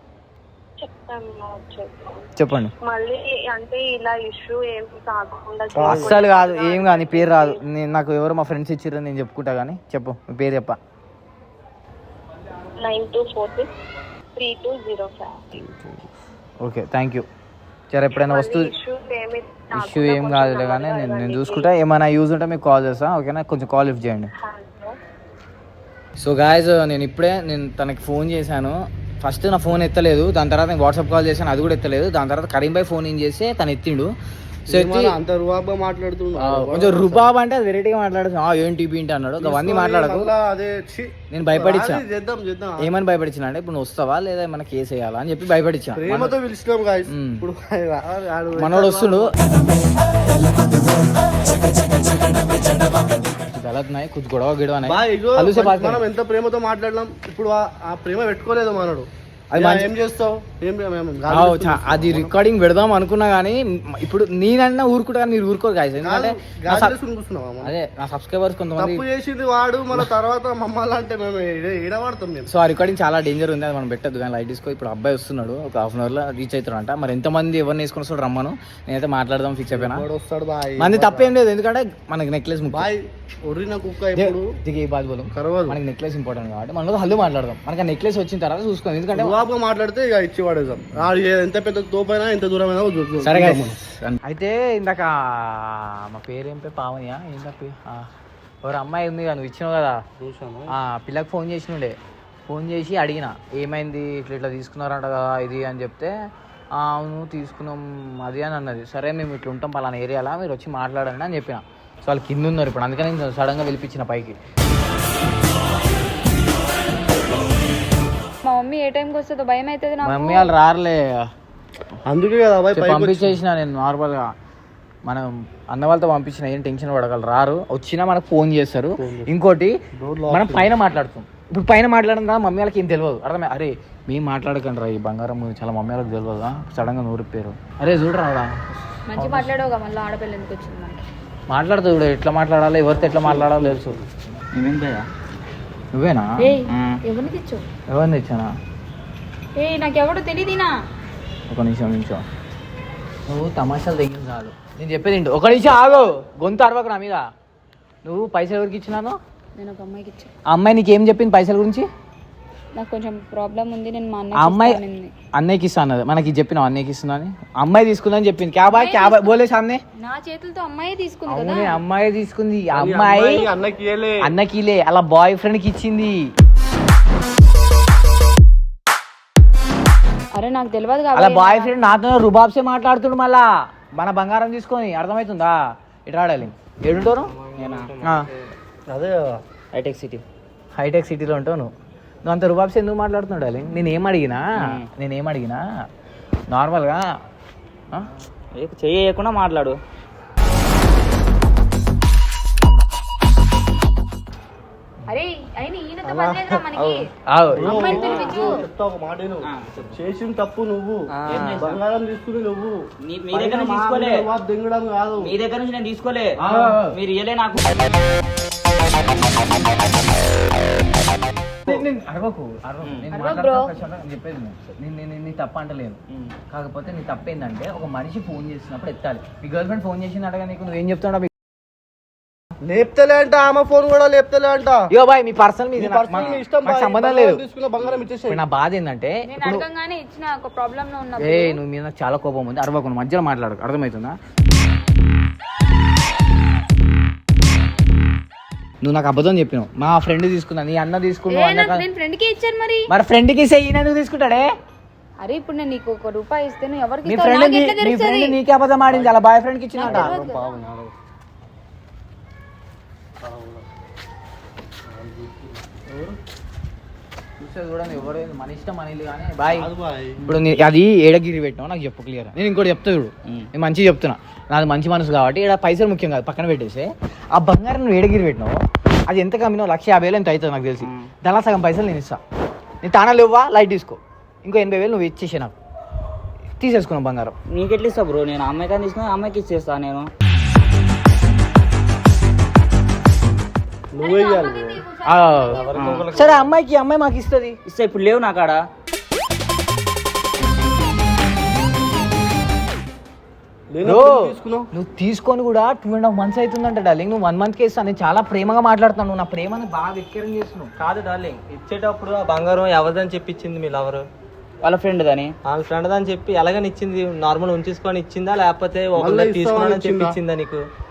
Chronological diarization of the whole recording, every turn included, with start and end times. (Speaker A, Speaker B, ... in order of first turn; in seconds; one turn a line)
Speaker A: 0.8-2.2
Speaker B: 2.4-2.7
Speaker A: 2.8-7.6
Speaker C: 5.7-6.2
Speaker B: 5.8-10.8
Speaker A: 12.8-13.7
Speaker A: 14.4-15.6
Speaker B: 16.6-17.2
Speaker B: 17.9-18.7
Speaker A: 18.1-21.7
Speaker B: 19.8-24.3
Speaker A: 24.4-24.9
Speaker B: 26.2-34.1
Speaker C: 34.7-37.3
Speaker B: 34.7-35.2
Speaker B: 36.4-40.3
Speaker C: 39.4-42.9
Speaker B: 41.3-42.0
Speaker B: 42.8-46.3
Speaker C: 46.0-49.3
Speaker B: 47.1-47.4
Speaker B: 48.6-49.3
Speaker B: 53.1-56.0
Speaker C: 54.8-62.3
Speaker B: 59.5-59.9
Speaker B: 61.3-66.9
Speaker C: 66.0-67.7
Speaker B: 67.6-69.0
Speaker C: 68.8-72.5
Speaker B: 72.5-80.0
Speaker C: 79.7-81.3
Speaker B: 80.8-82.9
Speaker C: 82.7-84.6
Speaker B: 84.2-89.4
Speaker C: 85.3-85.8
Speaker C: 89.1-93.8
Speaker B: 93.2-98.1
Speaker B: 98.6-100.0
Speaker C: 100.2-100.7
Speaker B: 100.7-102.0
Speaker B: 102.5-106.1
Speaker B: 106.7-114.4
Speaker D: 118.4-120.5
Speaker B: 120.0-121.3
Speaker C: 122.0-123.4
Speaker B: 122.7-124.3
Speaker B: 125.0-129.8
Speaker C: 129.0-129.3
Speaker C: 129.9-130.7
Speaker B: 130.3-138.5
Speaker D: 139.1-141.0
Speaker B: 139.1-139.5
Speaker B: 141.5-144.3
Speaker C: 143.1-144.0
Speaker E: 144.5-145.1
Speaker B: 145.9-146.5
Speaker D: 146.4-147.6
Speaker E: 146.7-147.0
Speaker B: 147.9-148.5
Speaker D: 149.6-150.7
Speaker B: 151.5-152.2
Speaker B: 153.3-157.2
Speaker B: 158.0-159.2
Speaker D: 159.6-160.3
Speaker B: 160.5-161.9
Speaker D: 162.7-165.1
Speaker B: 164.3-164.8
Speaker B: 165.3-169.8
Speaker D: 168.6-169.4
Speaker D: 170.0-171.8
Speaker B: 171.3-173.4
Speaker C: 172.7-174.3
Speaker B: 174.2-176.3
Speaker D: 180.3-181.7
Speaker B: 181.1-187.3
Speaker E: 187.6-187.9
Speaker B: 188.0-188.3
Speaker C: 188.9-189.4
Speaker E: 189.7-190.2
Speaker B: 190.8-191.7
Speaker B: 192.2-195.6
Speaker E: 194.6-194.9
Speaker B: 196.5-197.0
Speaker E: 198.6-199.8
Speaker D: 205.1-207.0
Speaker C: 206.0-206.6
Speaker B: 207.3-207.9
Speaker C: 207.5-215.3
Speaker D: 207.6-208.6
Speaker E: 208.0-208.5
Speaker E: 209.4-209.9
Speaker F: 211.1-211.6
Speaker E: 211.2-211.8
Speaker E: 213.0-214.2
Speaker E: 215.2-217.8
Speaker B: 216.4-216.9
Speaker B: 221.6-226.0
Speaker D: 223.1-223.7
Speaker B: 226.5-231.3
Speaker C: 232.6-234.8
Speaker B: 234.9-237.4
Speaker C: 235.8-238.4
Speaker B: 238.3-239.6
Speaker D: 239.2-241.6
Speaker B: 241.2-244.1
Speaker B: 248.8-251.8
Speaker D: 251.3-252.9
Speaker B: 252.9-254.5
Speaker D: 255.2-258.4
Speaker B: 257.0-260.2
Speaker C: 258.9-259.1
Speaker D: 259.7-260.6
Speaker C: 259.8-260.9
Speaker C: 263.2-263.6
Speaker C: 264.8-265.6
Speaker B: 267.4-269.7
Speaker C: 269.5-270.2
Speaker B: 270.2-282.2
Speaker E: 280.8-281.1
Speaker B: 282.8-285.5
Speaker B: 286.6-287.3
Speaker E: 287.5-290.1
Speaker C: 293.9-294.8
Speaker D: 294.0-295.9
Speaker B: 295.1-297.6
Speaker F: 295.6-296.4
Speaker E: 295.7-296.2
Speaker E: 297.6-298.6
Speaker C: 303.7-304.7
Speaker B: 303.8-310.7
Speaker F: 310.8-314.1
Speaker E: 314.6-315.3
Speaker F: 315.4-320.6
Speaker C: 319.0-320.2